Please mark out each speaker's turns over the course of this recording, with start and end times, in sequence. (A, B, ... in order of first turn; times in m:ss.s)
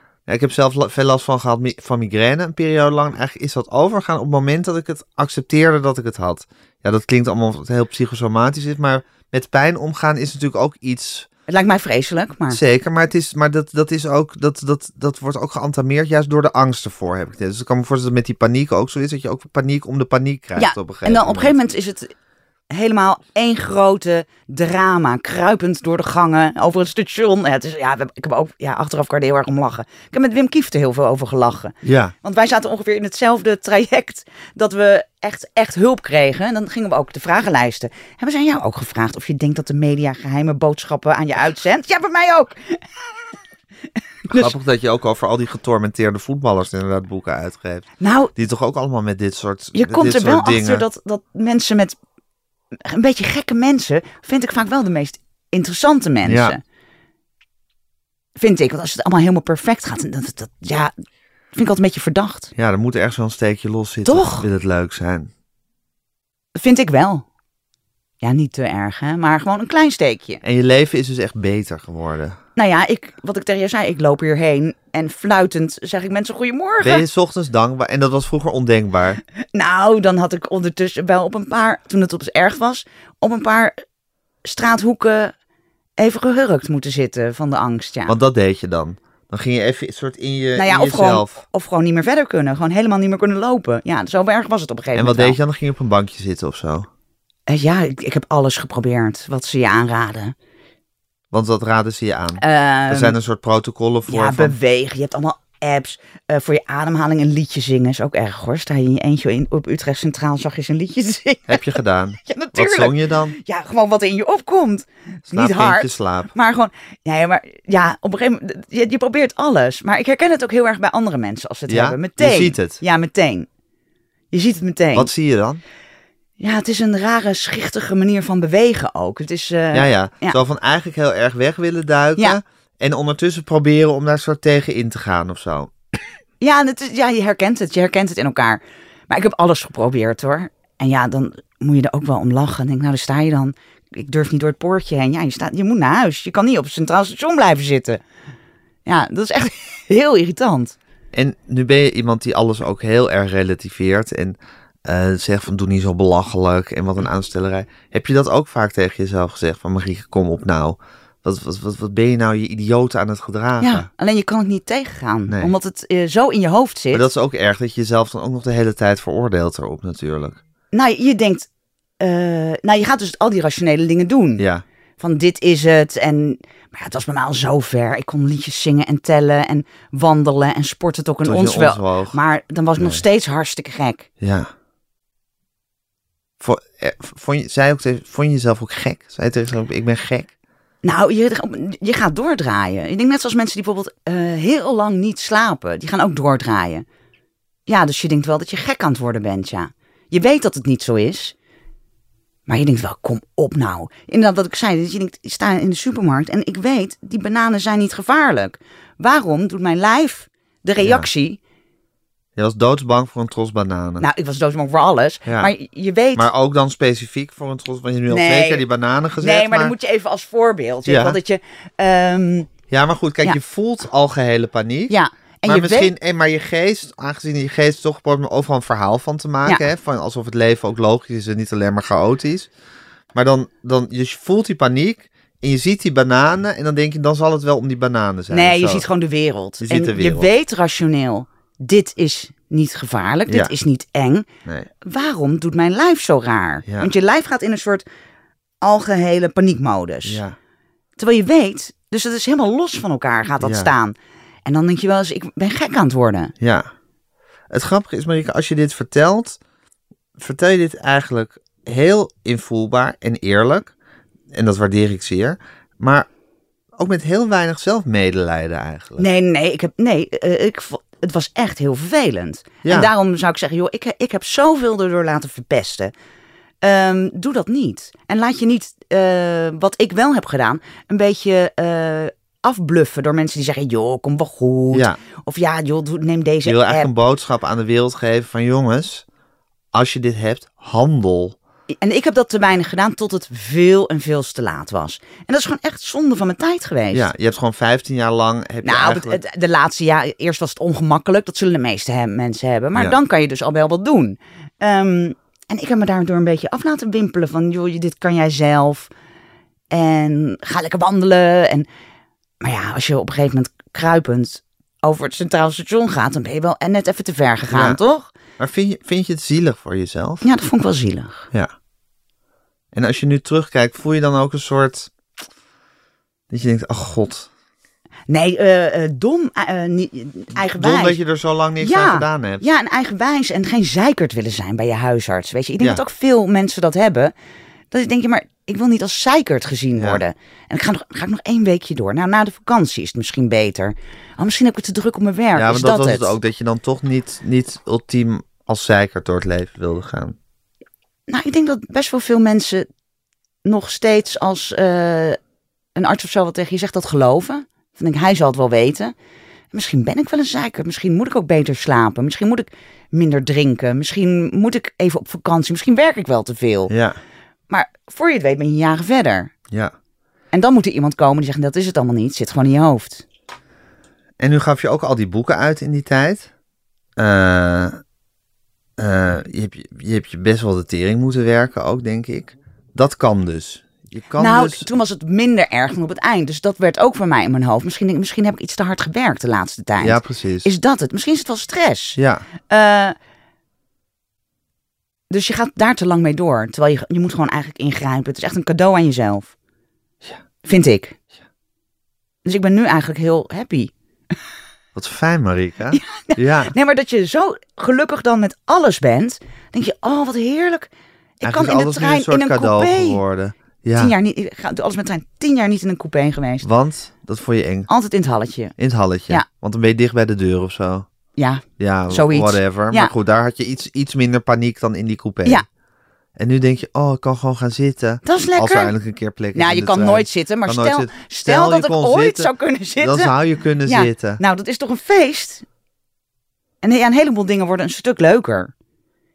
0:00.3-0:11.3 A
0:11.5-0:12.6 B
0:12.5-0:21.5 A
0:20.6-0:22.1 B
0:22.7-0:42.8 B
0:31.8-0:32.1 A
0:44.3-0:44.5 B
0:44.3-0:50.8 A
0:48.0-0:48.3 B
0:49.8-0:52.0 B
0:52.8-0:56.6 B
0:56.2-0:56.6 A
0:58.4-1:00.9 B
1:01.5-1:02.5 B
1:02.6-1:05.3 A
1:04.0-1:04.5 B
1:06.6-1:07.3 B
1:08.2-1:10.4 B
1:10.4-1:12.4 A
1:12.6-1:17.0 B
1:16.8-1:19.2 A
1:19.5-1:23.8 B
1:24.4-1:25.3 B
1:26.0-1:28.2 B
1:28.1-1:31.4 A
1:30.6-1:35.4 B
1:35.0-1:36.9 A
1:37.5-1:40.3 B
1:41.3-1:44.6 A
1:42.4-1:43.2 B
1:44.1-1:51.6 B
1:51.5-1:53.4 A
1:52.2-2:03.5 B
1:55.3-1:56.3 A
2:01.7-2:02.8 A
2:04.3-2:05.1 B
2:05.0-2:05.6 A
2:06.4-2:10.4 B
2:09.7-2:15.7 A
2:16.4-2:28.0 B
2:28.9-2:30.8 B
2:31.1-2:43.9 A
2:43.6-2:47.0 B
2:46.9-2:50.4 A
2:50.7-2:51.5 B
2:52.0-2:54.4 B
2:54.4-2:54.6 A
2:55.0-3:04.1 B
3:01.2-3:02.2 A
3:02.8-3:03.0 A
3:04.2-3:04.5 A
3:06.4-3:10.3 A
3:10.8-3:16.8 B
3:17.7-3:21.4 B
3:22.5-3:31.4 B
3:30.8-3:31.1 A
3:32.4-3:34.1 A
3:34.0-3:36.3 B
3:35.3-3:35.5 A
3:36.2-3:39.7 A
3:38.1-3:38.6 B
3:39.2-3:42.5 B
3:40.9-3:41.2 A
3:42.7-3:45.0 A
3:44.9-3:45.9 B
3:45.5-3:52.5 A
3:53.1-3:58.9 A
3:58.3-4:04.3 B
3:59.6-4:00.3 A
4:04.8-4:07.8 B
4:08.6-4:10.2 B
4:10.0-4:10.4 A
4:11.0-4:14.0 B
4:13.4-4:13.7 A
4:14.5-4:16.3 B
4:16.4-4:16.7 A
4:17.5-4:19.4 A
4:20.2-4:23.7 A
4:24.3-4:26.1 A
4:26.8-4:29.1 A
4:29.0-4:35.9 B
4:32.6-4:32.9 A
4:36.6-4:46.9 B
4:44.7-4:45.0 A
4:46.4-4:49.0 A
4:49.7-4:51.4 A
4:51.8-4:57.1 B
4:56.9-4:59.2 A
4:58.6-5:08.9 B
5:09.7-5:11.7 B
5:12.4-5:18.1 B
5:17.5-5:17.8 A
5:18.4-5:20.2 A
5:20.2-5:21.3 B
5:22.7-5:24.9 A
5:26.3-5:27.3 A
5:28.1-5:31.0 B
5:30.4-5:32.4 A
5:31.6-5:37.1 B
5:37.7-5:46.1 B
5:39.8-5:40.0 A
5:45.4-5:50.2 A
5:51.1-5:52.7 B
5:53.4-5:55.2 B
5:55.8-5:58.9 B
5:59.5-6:06.7 B
6:06.7-6:07.0 A
6:07.5-6:09.3 B
6:10.3-6:13.0 B
6:14.2-6:16.3 A
6:17.0-6:17.8 A
6:18.8-6:24.7 A
6:24.2-6:33.0 B
6:29.8-6:30.5 A
6:32.0-6:32.2 A
6:35.1-6:39.3 B
6:40.4-6:41.0 B
6:42.2-6:43.7 B
6:44.8-6:46.5 A
6:45.7-6:50.7 B
6:51.2-6:53.0 B
6:51.2-6:53.9 A
6:53.7-6:56.5 B
6:56.4-6:57.7 A
6:57.7-6:58.6 B
6:58.6-7:00.9 A
7:01.2-7:02.9 B
7:01.6-7:05.4 A
7:06.2-7:14.2 A
7:08.0-7:08.7 B
7:09.3-7:13.1 B
7:13.6-7:15.4 B
7:16.6-7:18.5 B